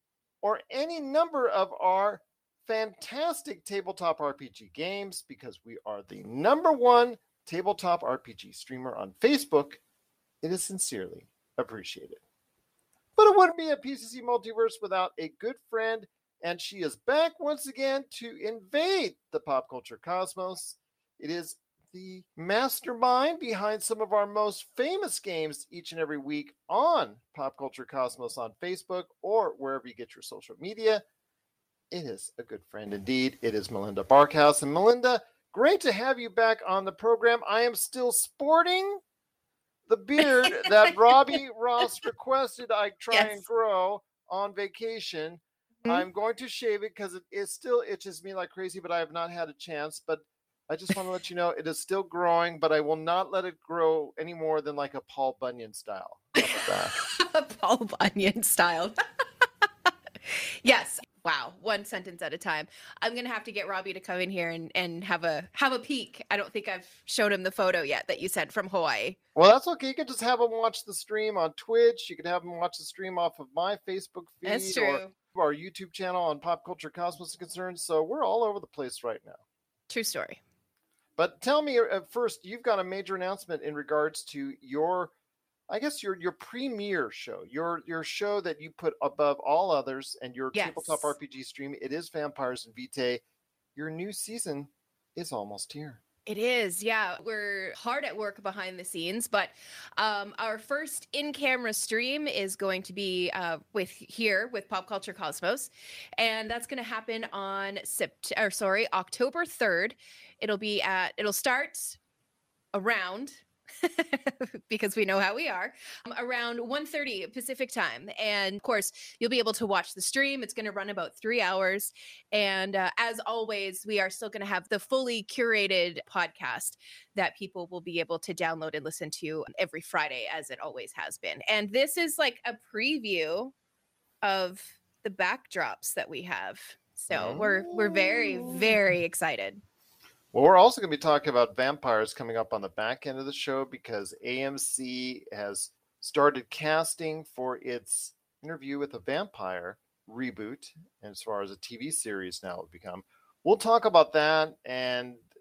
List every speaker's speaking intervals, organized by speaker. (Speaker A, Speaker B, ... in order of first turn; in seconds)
Speaker A: 0.4-9.8, 10.4-12.2, 13.2-31.0, 31.9-39.0, 39.9-56.9, 69.4-79.4, 81.2-85.1, 85.7-93.2, 93.8-96.0, 137.1-138.7, 140.3-155.3
Speaker B: 43.1-43.4, 56.4-59.0, 60.3-69.2, 74.5-75.1, 79.9-80.4, 90.5-91.1, 96.3-112.0, 112.7-133.5, 134.2-139.6